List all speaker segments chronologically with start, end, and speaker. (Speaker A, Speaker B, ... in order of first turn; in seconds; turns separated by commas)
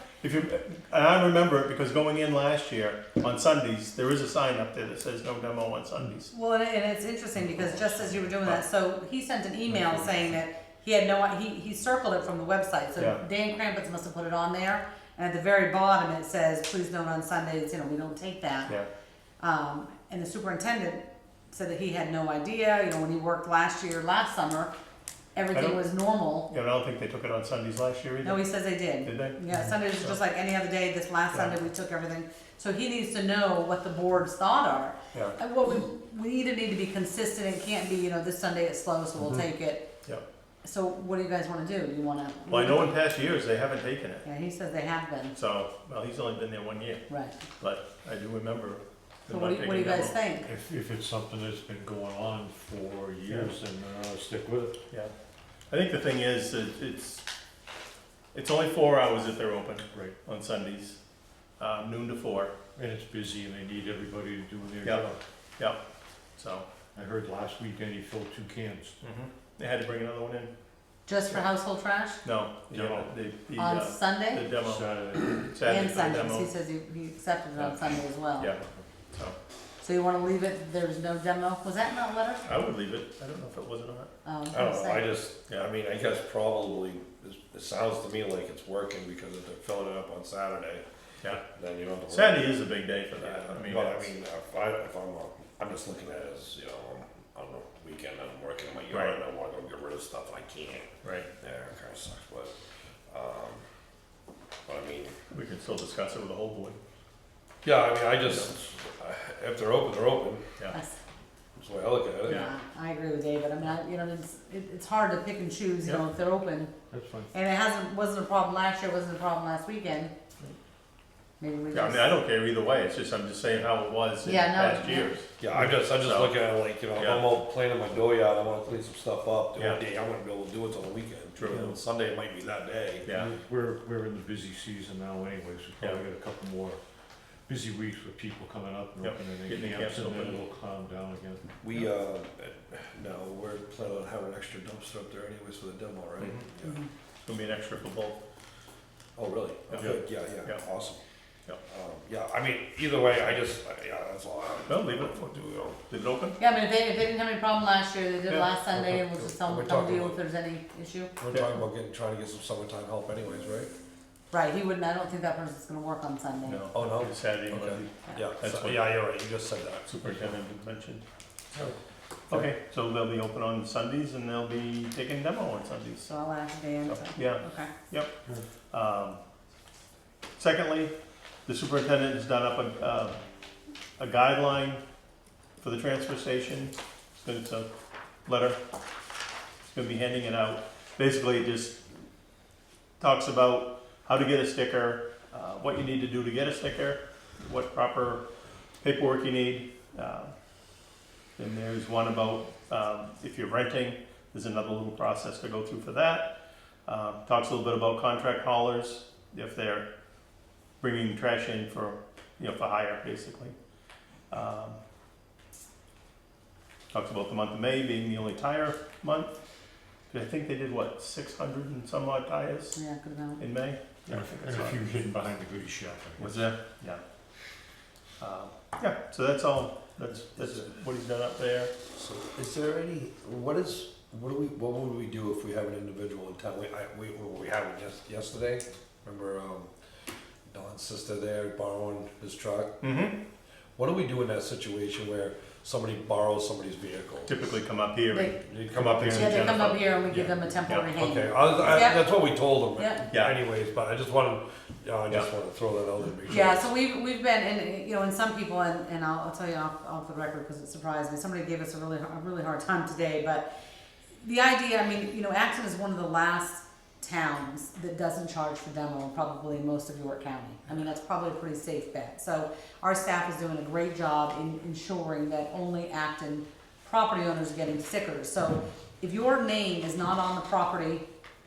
Speaker A: 0.2-6.3, Speaker B: 6.3-18.7, Speaker A: 13.0-13.2, Speaker B: 19.4-24.7, Speaker B: 25.3-26.5, Speaker A: 25.5-25.8, Speaker A: 26.5-29.4, Speaker B: 28.2-39.9, Speaker B: 40.6-42.8, Speaker A: 42.5-44.2, Speaker B: 44.2-45.3, Speaker A: 45.3-47.0, Speaker B: 47.1-47.4, Speaker A: 47.6-50.2, Speaker B: 49.3-50.4, Speaker C: 50.4-54.7, Speaker A: 55.7-57.2, Speaker A: 58.3-61.0, Speaker A: 61.6-62.5, Speaker C: 62.8-65.2, Speaker A: 66.3-66.7, Speaker C: 66.9-69.0, Speaker A: 69.0-70.5, Speaker B: 71.1-72.2, Speaker A: 72.2-74.8, Speaker C: 72.7-73.1, Speaker B: 73.5-74.4, Speaker C: 74.5-75.6, Speaker A: 75.4-76.5, Speaker B: 75.6-78.5, Speaker A: 77.6-77.9, Speaker A: 78.4-79.3, Speaker B: 79.8-82.5, Speaker A: 82.4-84.1, Speaker B: 84.2-85.1, Speaker D: 84.5-90.8, Speaker D: 91.4-92.5, Speaker A: 92.1-94.1, Speaker D: 93.2-102.5, Speaker A: 98.9-99.2, Speaker A: 101.0-101.3, Speaker D: 103.1-103.6, Speaker D: 104.7-105.2, Speaker A: 105.3-106.8, Speaker D: 107.6-110.4, Speaker B: 110.7-111.0, Speaker D: 111.6-112.4, Speaker B: 112.3-116.8, Speaker C: 116.9-117.3, Speaker B: 117.3-120.1, Speaker B: 121.4-122.1, Speaker A: 121.7-126.3, Speaker B: 124.2-125.2, Speaker D: 125.4-133.0, Speaker A: 126.9-127.3, Speaker A: 131.3-131.6, Speaker C: 131.5-131.7, Speaker C: 133.0-136.8, Speaker C: 137.5-141.4, Speaker A: 139.0-140.4, Speaker D: 141.6-146.8, Speaker A: 146.2-146.4, Speaker A: 147.2-148.2, Speaker D: 149.2-151.0, Speaker D: 151.7-155.8, Speaker A: 154.7-156.4, Speaker B: 156.4-161.2, Speaker D: 158.7-160.2, Speaker D: 161.2-163.7, Speaker B: 164.3-166.6, Speaker A: 166.4-168.8, Speaker D: 166.7-170.3, Speaker A: 169.9-171.0, Speaker A: 172.3-176.1, Speaker B: 176.1-177.7, Speaker A: 176.9-178.1, Speaker A: 178.7-179.2, Speaker A: 180.4-180.9, Speaker A: 181.4-183.2, Speaker A: 184.0-184.8, Speaker A: 185.6-187.7, Speaker A: 188.2-188.6, Speaker A: 189.7-191.8, Speaker A: 193.0-198.2, Speaker A: 198.8-200.3, Speaker A: 201.4-206.3, Speaker A: 206.8-209.9, Speaker A: 210.8-213.5, Speaker A: 214.3-214.8, Speaker A: 216.9-219.3, Speaker A: 220.1-222.8, Speaker B: 222.7-223.4, Speaker A: 223.4-224.8, Speaker C: 224.1-226.5, Speaker A: 226.2-227.0, Speaker A: 228.2-231.7, Speaker D: 230.4-230.7, Speaker D: 231.9-239.7, Speaker D: 240.5-242.8, Speaker A: 242.8-243.2, Speaker D: 243.8-247.4, Speaker A: 247.3-250.9, Speaker B: 248.1-248.4, Speaker D: 248.4-249.5, Speaker C: 248.6-249.8, Speaker B: 249.2-252.1, Speaker D: 250.9-256.6, Speaker B: 252.7-253.1, Speaker A: 253.1-253.3, Speaker B: 256.3-263.5, Speaker B: 264.2-281.1